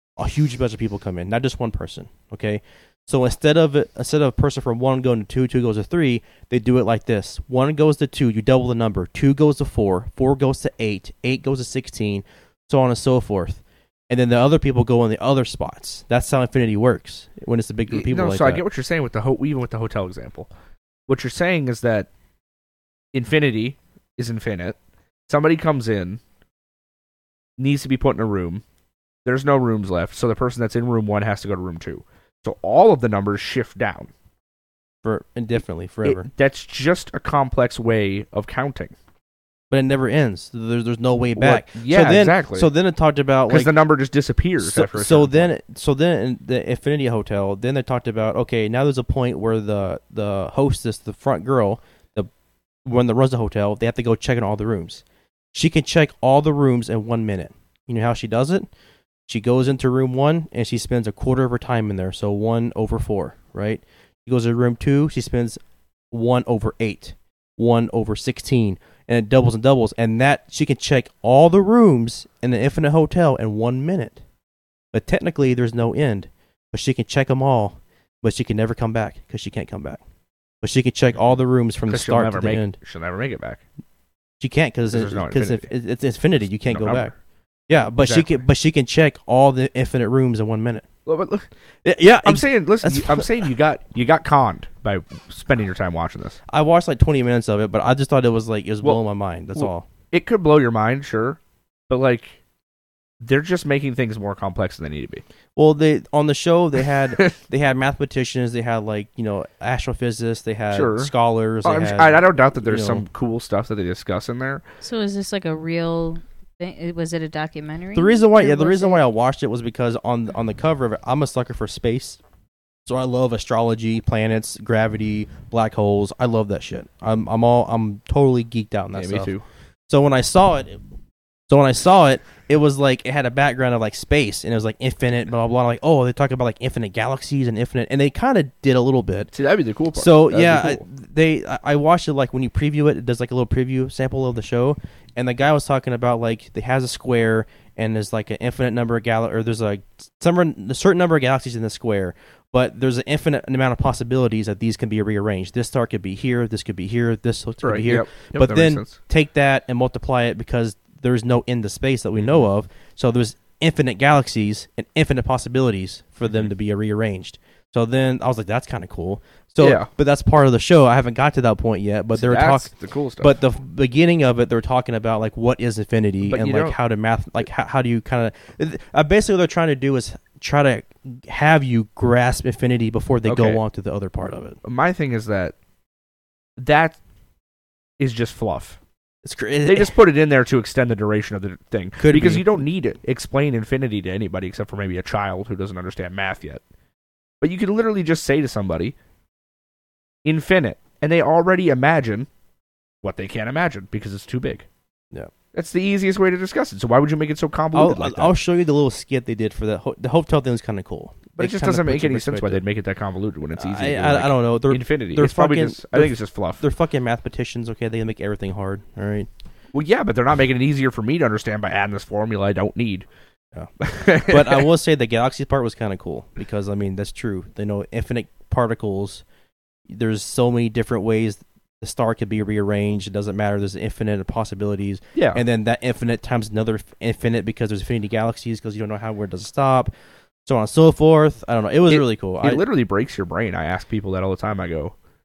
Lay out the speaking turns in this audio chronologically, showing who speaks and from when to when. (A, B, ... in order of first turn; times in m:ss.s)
0:00.2-0:18.6 A
0:17.9-0:20.5 B
0:21.1-0:22.1 B
0:23.1-0:24.8 B
0:25.3-0:26.2 B
0:27.6-0:28.6 B
0:29.2-0:34.1 B
0:35.0-0:36.3 A
0:36.0-0:38.9 B
0:39.7-0:43.7 A
0:41.4-0:42.7 B
0:43.5-0:45.5 B
0:44.6-0:52.3 A
0:52.8-0:58.7 A
0:59.3-1:14.2 A
1:14.9-1:20.0 A
1:20.6-1:22.8 A
1:21.9-1:23.6 B
1:24.4-1:27.1 A
1:24.9-1:25.7 B
1:26.6-1:27.1 B
1:27.7-1:30.9 A
1:28.0-1:28.3 B
1:31.1-1:31.5 B
1:31.8-1:33.3 A
1:32.2-1:36.4 B
1:36.5-1:39.9 A
1:39.6-1:41.4 B
1:41.9-1:42.4 B
1:43.2-1:45.2 B
1:45.6-1:53.1 A
1:50.7-1:54.6 B
1:54.8-1:59.0 C
1:58.0-2:02.2 A
2:02.9-2:09.3 A
2:08.9-2:09.4 B
2:09.9-2:10.8 A
2:11.5-2:19.3 A
2:19.3-2:20.8 B
2:19.9-3:04.6 A
2:37.6-2:39.0 B
2:49.6-2:49.9 B
2:52.1-2:53.4 B
2:56.2-2:56.8 B
3:03.3-3:03.6 B
3:04.6-3:05.6 B
3:06.6-3:07.0 B
3:08.0-3:08.8 B
3:09.2-3:10.0 A
3:09.6-3:16.6 B
3:12.0-3:12.7 A
3:17.4-3:19.0 B
3:20.2-3:22.3 B
3:23.0-3:24.7 B
3:25.5-3:28.4 B
3:27.7-3:32.6 A
3:31.4-3:36.6 B
3:33.6-3:39.3 A
3:39.7-3:43.1 B
3:43.8-3:44.7 B
3:44.2-3:49.2 A
3:49.9-3:59.9 A
3:55.2-3:55.4 B
4:00.5-4:02.6 A
4:01.9-4:05.0 B